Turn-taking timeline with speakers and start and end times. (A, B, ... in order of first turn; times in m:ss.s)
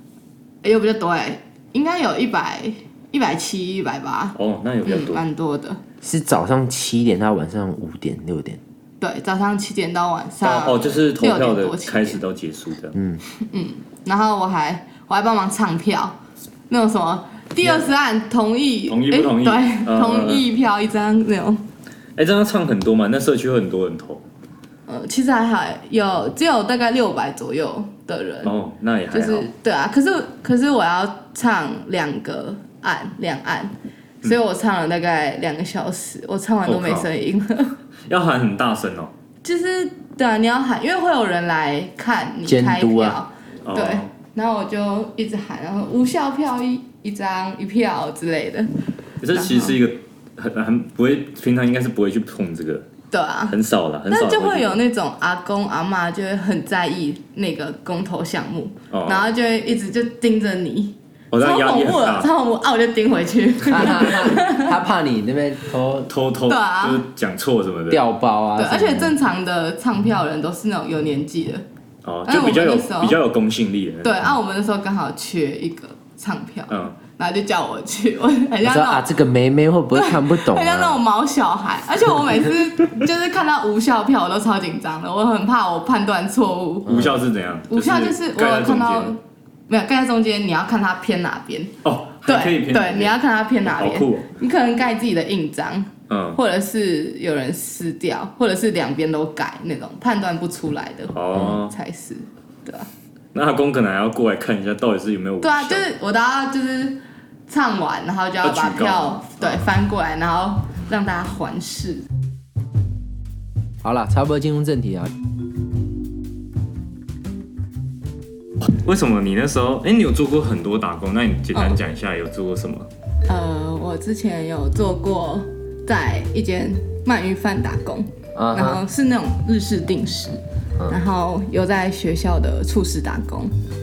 0:00.6-0:05.8 A
0:04.3-0:05.2 B
0:06.0-0:08.6 C
0:09.0-0:12.2 A
0:10.4-0:13.0 B
0:12.9-0:13.2 C
0:13.4-0:16.2 A
0:16.7-0:21.6 A
0:17.6-0:17.9 B
0:18.9-0:20.5 B
0:22.2-0:24.2 B
0:24.9-0:28.5 A
0:28.4-0:29.5 B
0:29.1-0:37.7 A
0:36.6-0:37.1 B
0:38.1-0:39.1 B
0:39.4-0:48.7 A
0:42.4-0:43.2 C
0:43.6-0:44.1 B
0:49.2-0:52.8 B
0:49.3-0:49.8 A
0:53.1-0:53.6 A
0:53.5-0:54.8 B
0:54.1-1:04.8 A
0:58.9-0:59.3 B
1:01.3-1:02.3 B
1:03.6-1:06.1 C
1:06.1-1:08.0 B
1:06.5-1:07.0 A
1:07.9-1:09.1 C
1:08.6-1:11.6 A
1:12.0-1:14.2 B
1:12.3-1:13.2 A
1:14.0-1:19.1 A
1:16.7-1:16.9 B
1:18.6-1:21.0 C
1:19.9-1:26.9 A
1:26.8-1:29.1 B
1:26.8-1:27.2 C
1:27.7-1:42.9 A
1:31.8-1:33.1 B
1:33.6-1:34.3 B
1:36.1-1:36.4 B
1:41.1-1:41.7 B
1:43.3-1:45.9 B
1:45.4-1:52.0 A
1:48.4-1:49.7 B
1:53.8-1:55.1 C
1:58.6-2:02.9 B
2:01.5-2:01.8 A
2:03.3-2:13.5 A
2:08.3-2:08.8 C